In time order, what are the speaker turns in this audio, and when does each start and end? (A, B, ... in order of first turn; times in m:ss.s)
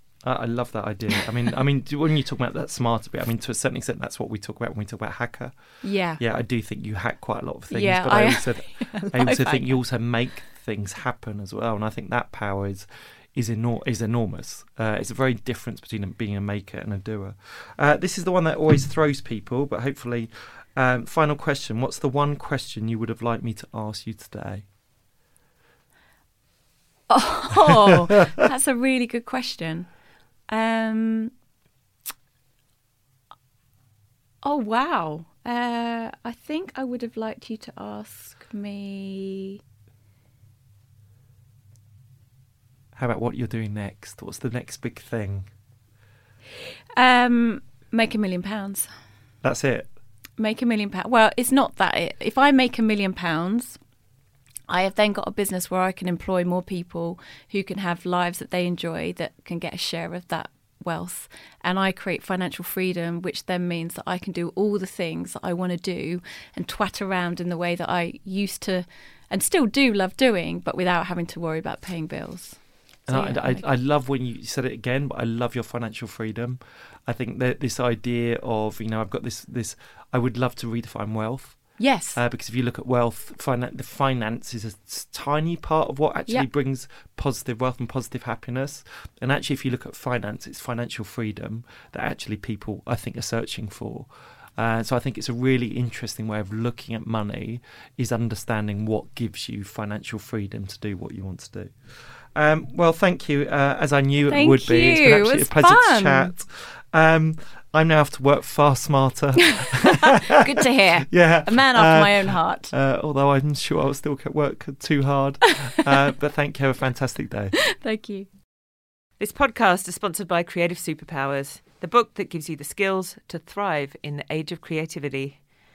0:00.2-0:24.6 A
0:05.8-0:06.2 B
0:07.7-0:09.8 B
0:27.1-0:29.9 B
0:30.5-0:31.3 B
0:34.4-0:39.6 B
0:42.9-0:45.5 A
0:47.0-0:48.9 B
0:49.4-0:49.9 A
0:50.4-0:53.8 B
0:54.7-1:13.6 B
1:13.1-1:50.4 A
1:21.8-1:22.2 B
1:44.3-1:46.3 B
1:49.4-1:52.7 B
1:51.1-1:57.5 A
1:57.7-1:58.3 B
1:59.2-2:05.4 C